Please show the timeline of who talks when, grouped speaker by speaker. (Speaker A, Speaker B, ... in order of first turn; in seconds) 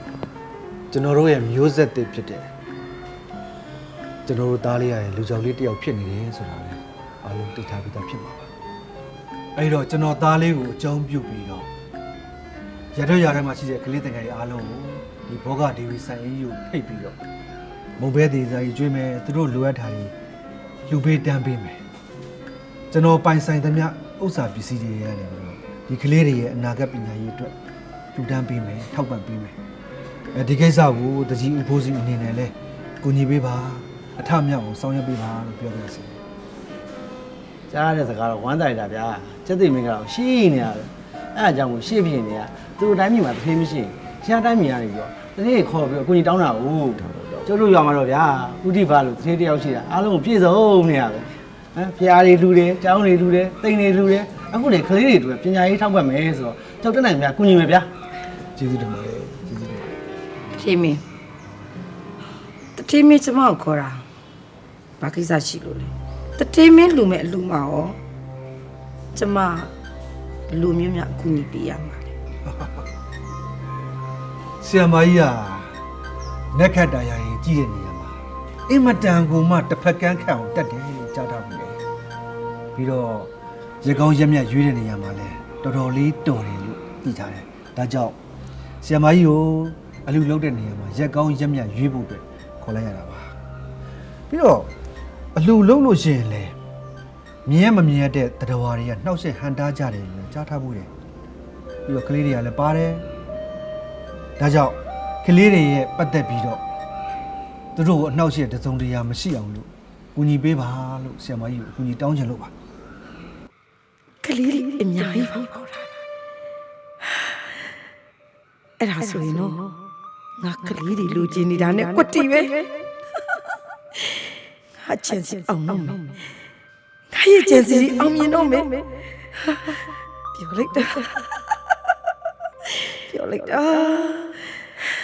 Speaker A: 0.9-2.5, 4.3-8.5, 9.6-11.7, 12.9-17.2, 18.0-20.1, 20.9-21.8, 22.9-27.5, 28.1-29.6, 30.3-36.2, 58.6-60.0, 72.5-72.8, 74.6-75.7, 76.5-81.8, 82.7-83.3, 83.8-88.2, 88.8-93.3, 94.3-94.7, 95.3-96.6, 97.5-100.9, 101.9-103.1, 104.4-106.6, 107.8-112.5
Speaker B: 37.7-57.9
Speaker C: 60.5-61.0, 62.8-64.0, 65.0-68.0, 69.1-69.7, 70.5-72.1, 114.2-115.8, 118.8-119.7, 120.4-122.7, 124.8-126.2, 127.1-131.5, 132.9-134.5